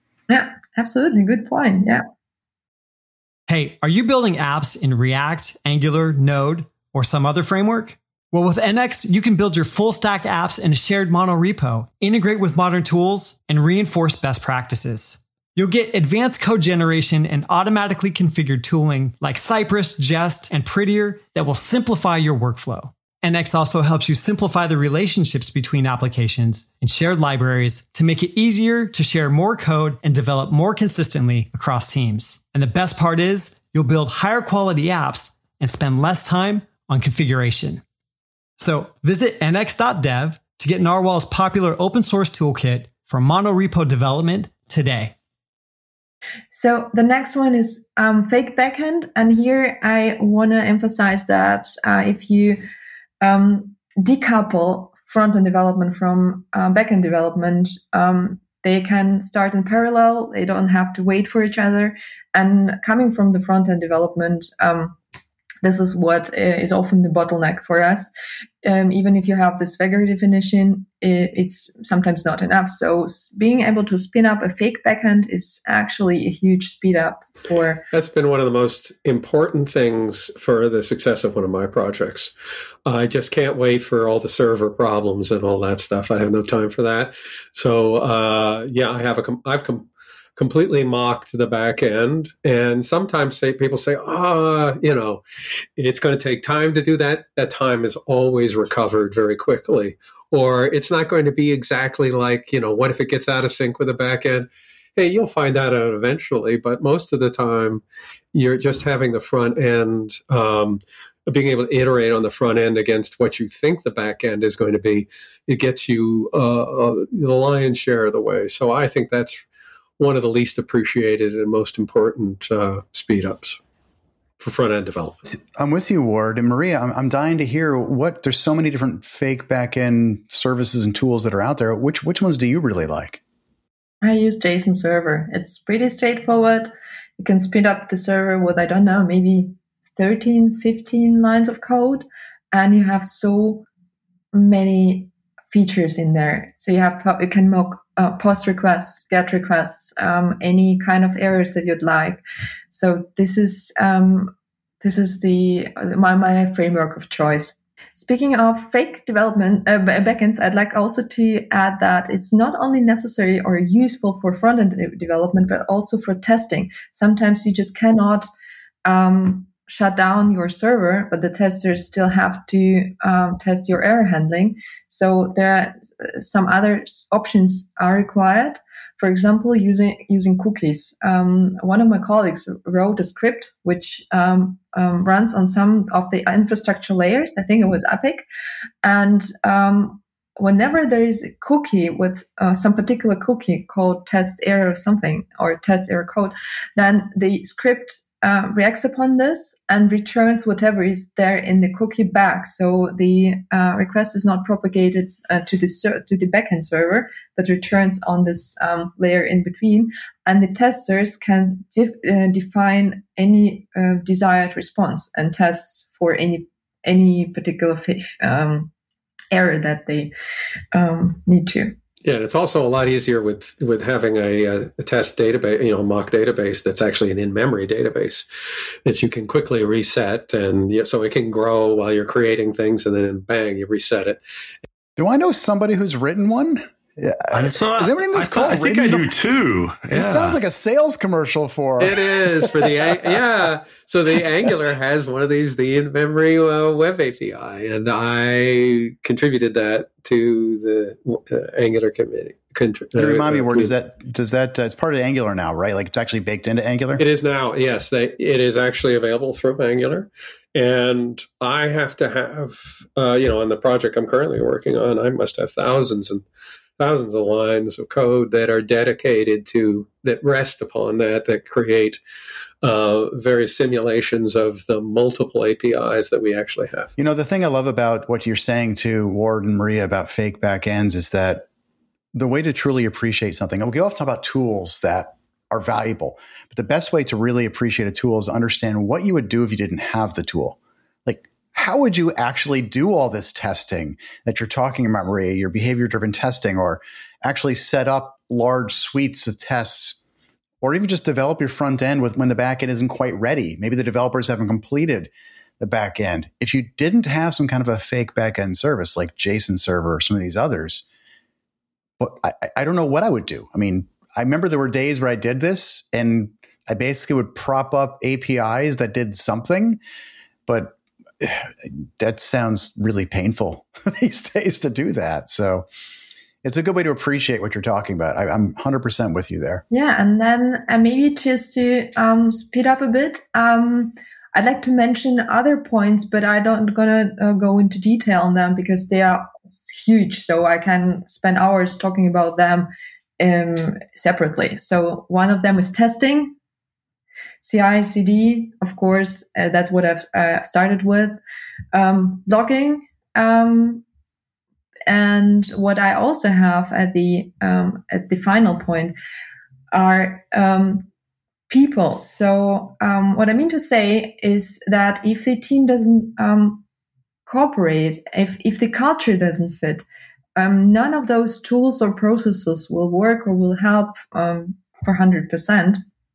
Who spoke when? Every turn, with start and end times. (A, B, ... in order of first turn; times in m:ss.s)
0:00.3-0:02.0 A
0:03.5-0:37.8 B
0:38.6-0:45.2 B
0:46.5-0:52.6 A
0:53.2-1:05.0 A
1:05.6-1:08.1 A
1:08.6-1:17.8 A
1:17.9-1:22.3 C
1:22.9-1:35.2 C
1:35.8-1:47.8 C
1:48.3-1:59.4 C
2:00.0-2:03.6 C
2:04.4-2:05.4 C
2:05.4-2:13.2 D
2:14.0-2:23.7 A
2:24.3-2:48.3 A
2:48.8-3:08.2 A
3:08.8-3:38.7 A
3:39.3-3:40.1 A
3:40.7-3:41.8 A
3:42.0-3:48.3 C
3:48.8-3:54.2 C
3:55.0-3:59.1 D
3:57.3-4:00.4 E
3:59.9-4:03.2 D
4:01.8-4:13.7 C
4:13.0-4:17.0 D
4:17.0-4:26.2 C
4:26.8-4:32.0 C
4:32.6-4:36.9 C
4:37.0-4:41.4 D
4:42.1-5:00.0 D
5:00.6-5:10.9 D
5:12.0-5:19.8 D
5:20.5-5:25.6 D
5:26.4-5:29.6 D
5:29.7-5:46.4 A
5:47.4-5:51.2 A
5:51.7-5:53.8 A
5:54.9-5:59.0 A
5:59.7-6:00.9 A
6:01.5-6:06.6 A
6:07.3-6:09.8 A
6:10.4-6:15.8 A